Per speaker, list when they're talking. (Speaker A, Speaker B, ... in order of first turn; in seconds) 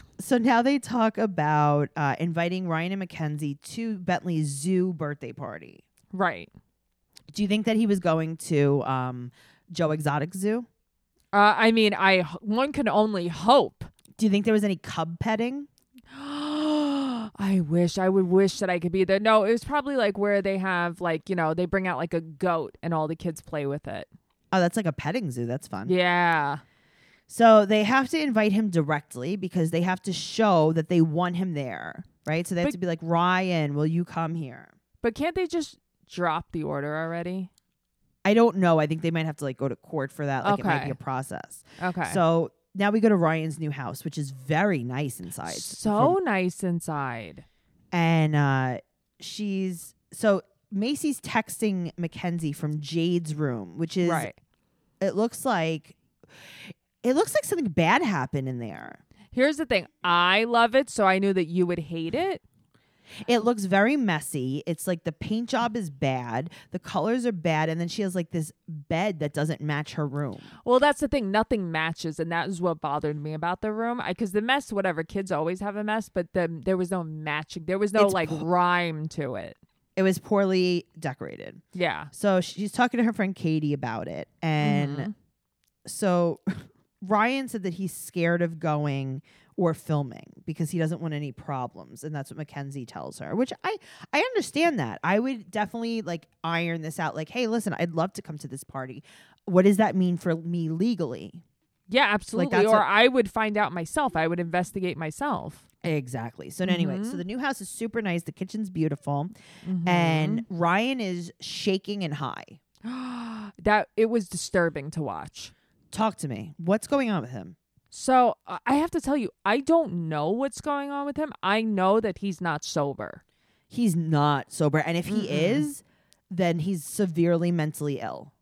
Speaker A: 0.2-5.8, 7.3-10.7, 14.2-15.7, 24.5-25.9, 27.3-34.7, 38.2-46.2, 47.9-54.3, 55.0-56.0, 57.0-59.0, 63.2-70.5, 78.0-78.5, 80.0-85.1, 85.8-101.4, 102.3-102.9, 105.8-109.3, 109.8-112.6, 115.9-117.6, 123.7-128.3
Speaker B: 6.1-6.5, 11.3-13.9, 16.1-24.1, 25.9-26.6, 35.0-37.5, 40.4-41.0, 41.8-42.2, 45.4-47.4, 54.0-54.4, 59.3-62.4, 70.6-79.6, 81.7-82.1, 84.6-85.1, 101.9-105.6, 106.6-107.2, 109.6-110.4, 112.8-115.5, 117.9-123.2, 125.1-125.7